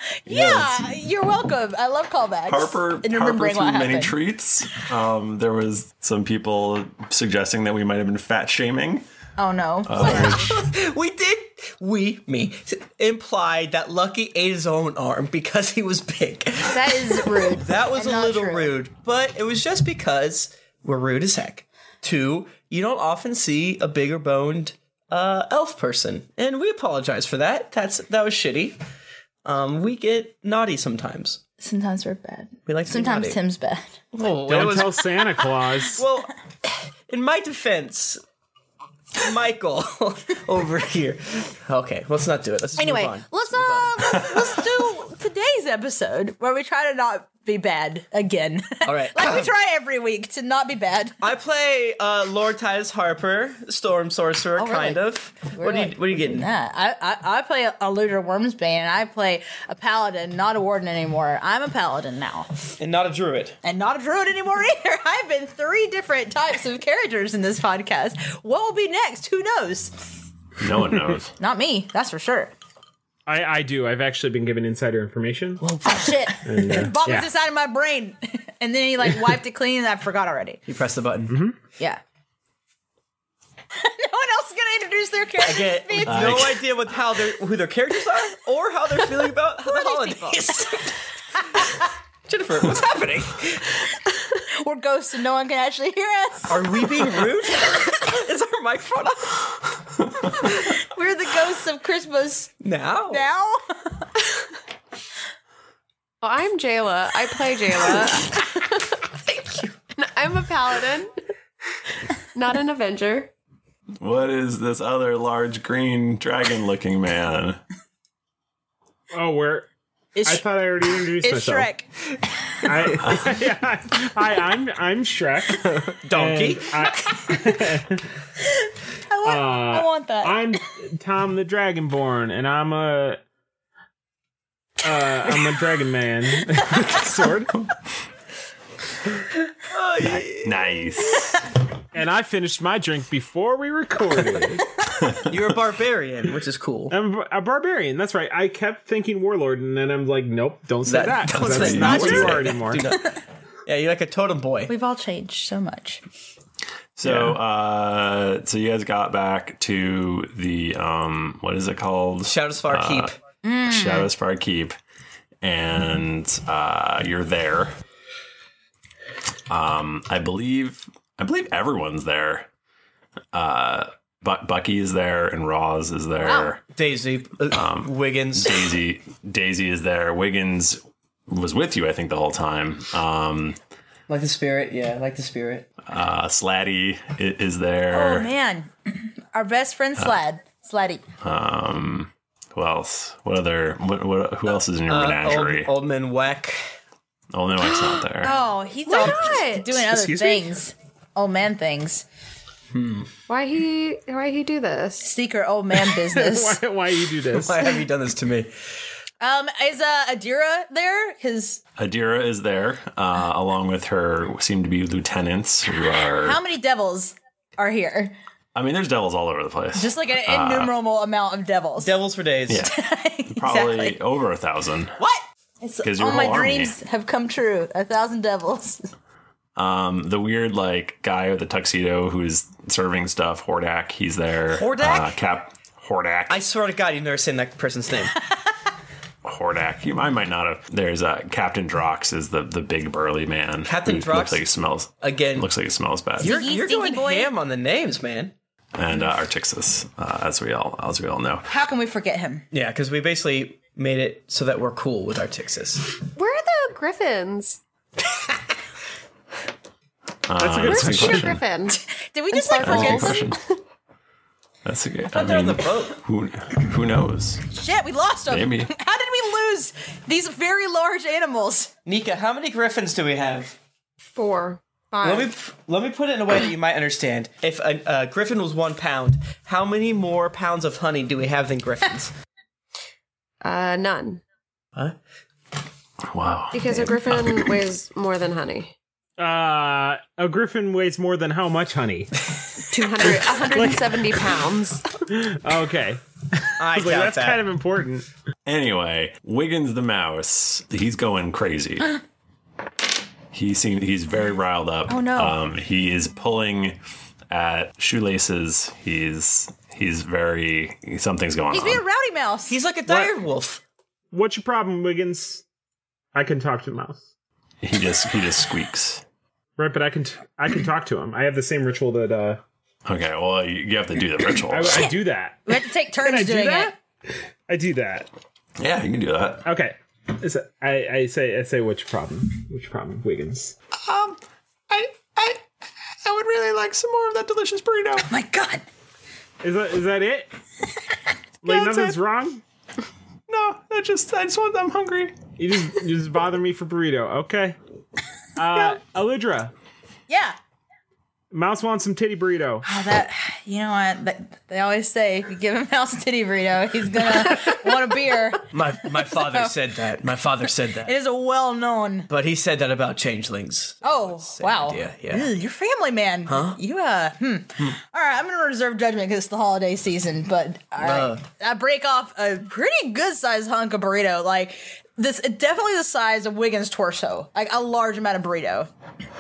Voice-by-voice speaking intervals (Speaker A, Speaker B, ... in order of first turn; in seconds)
Speaker A: 0.2-4.1, 9.4-10.5, 16.7-18.7, 31.6-33.9, 42.8-51.2, 54.6-62.5, 63.6-70.0, 71.4-72.5, 75.9-80.6, 83.8-86.4, 89.7-90.7, 94.6-97.1, 100.5-102.5, 103.1-103.6, 120.2-120.5, 121.2-121.9, 129.1-130.5, 151.7-152.4, 154.7-156.0, 163.4-164.1, 176.2-176.5, 187.9-191.0, 198.2-202.1, 205.0-206.6, 209.2-211.6, 216.2-218.2, 219.8-222.0, 222.6-224.0, 225.0-228.8, 246.2-247.3, 251.5-252.4, 261.7-263.3, 267.5-271.7, 304.9-305.4, 311.5-312.6, 325.5-326.8, 338.1-338.6, 341.5-341.9, 350.1-350.4, 352.6-358.5, 359.1-359.5, 360.9-362.1, 363.8-378.7
Speaker B: 0.3-0.9, 2.5-9.0, 9.9-10.6, 70.6-71.3, 86.1-86.6, 114.0-117.6, 140.4-141.3, 151.5-152.3, 157.0-163.1, 163.7-164.8, 165.4-167.7, 169.5-172.5, 173.3-176.6, 177.5-183.6, 185.9-188.3, 191.2-195.7, 197.3-198.4, 211.8-216.4, 218.6-220.7, 222.5-222.7, 223.3-225.0, 225.8-226.7, 229.6-236.4, 239.2-246.3, 248.8-251.5, 260.3-261.4, 262.6-263.4, 264.6-267.4, 268.3-268.7, 286.1-287.5, 298.5-302.0, 303.3-306.8, 307.3-311.8, 317.6-319.0, 322.9-324.9, 328.6-329.5, 333.8-334.2, 334.7-335.4, 336.1-338.1, 343.3-345.2
Speaker C: 10.0-28.8, 29.4-31.4, 32.7-33.4, 34.1-38.2, 39.2-44.3, 48.9-49.5, 51.2-56.5, 62.8-63.6, 75.6-76.9, 80.7-81.5, 85.4-90.9, 92.3-93.7, 96.5-99.5, 102.6-103.2, 126.0-126.9, 139.7-140.8, 145.3-146.9, 150.8-154.7, 157.0-157.4, 162.3-163.2, 176.7-178.6, 184.1-185.7, 194.9-196.7, 202.7-203.1, 207.3-208.5, 221.8-222.7, 234.5-235.1, 236.3-238.2, 243.7-244.4, 245.0-245.5, 246.2-248.3, 252.5-255.9, 265.1-266.0, 271.9-273.6, 275.0-282.1, 296.6-297.5, 312.5-313.6, 358.5-360.9, 362.1-365.3, 366.3-366.6, 370.8-371.2
Speaker D: 34.4-36.0, 73.3-75.6, 76.5-77.3, 81.3-81.5, 119.1-119.7, 120.2-121.7, 122.6-128.0, 129.2-133.2, 134.8-137.5, 141.9-144.7, 146.9-152.8, 199.8-200.5, 206.1-207.8, 260.4-261.4, 289.2-292.1, 293.0-294.3, 295.1-298.1, 312.9-313.1, 314.1-315.4, 316.1-317.1, 319.6-322.4, 324.5-326.8, 327.5-328.1, 329.4-333.6, 339.4-340.3, 341.4-342.4, 345.4-347.6, 348.4-349.5, 351.3-352.6
Speaker E: 106.2-109.0, 110.0-111.1, 112.3-113.3, 198.9-199.7, 203.3-205.1, 256.2-257.6, 260.6-261.8, 262.3-263.5, 274.1-275.3, 283.4-284.2, 286.5-288.7, 292.7-294.9